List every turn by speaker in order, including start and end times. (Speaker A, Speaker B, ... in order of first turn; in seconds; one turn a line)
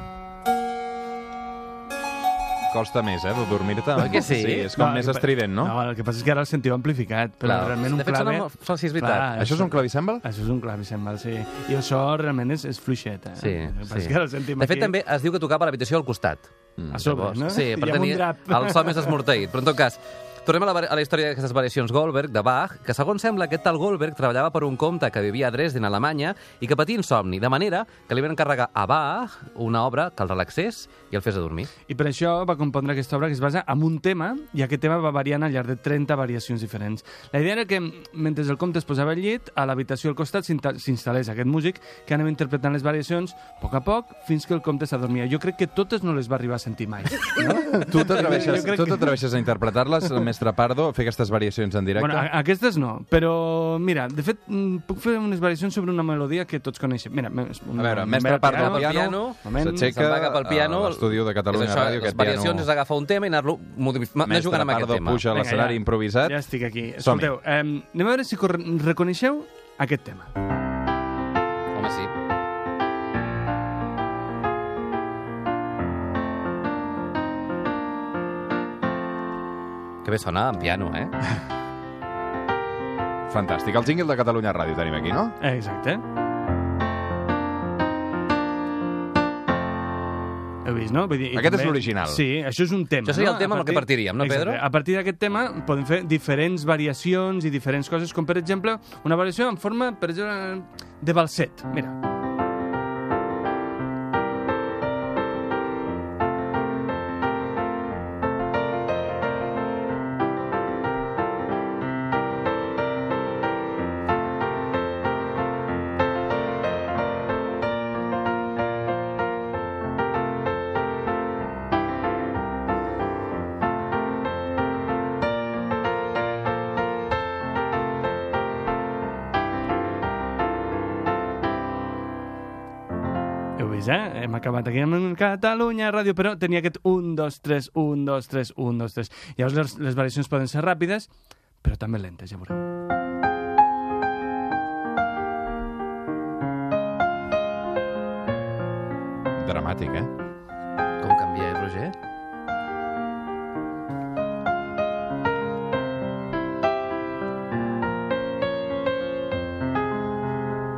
Speaker A: 2.7-5.7
Speaker B: 4.0-4.7
Speaker C: 4.7-14.9
Speaker B: 7.4-9.3
Speaker A: 9.4-10.2
Speaker B: 13.4-31.7
Speaker C: 16.9-19.2
Speaker C: 31.9-49.2
Speaker A: 47.7-52.3
Speaker C: 52.0-60.0
Speaker A: 57.8-62.7
Speaker B: 58.5-65.2
Speaker A: 64.2-66.4
Speaker C: 65.3-70.3
Speaker A: 67.0-67.3
Speaker B: 71.7-72.1
Speaker B: 80.0-81.1
Speaker A: 83.3-85.4
Speaker C: 85.4-86.0
Speaker C: 90.6-102.0
Speaker A: 91.3-92.2
Speaker B: 93.0-94.6
Speaker C: 133.6-141.1
Speaker C: 141.6-142.6
Speaker A: 149.4-150.1
Speaker B: 151.0-151.9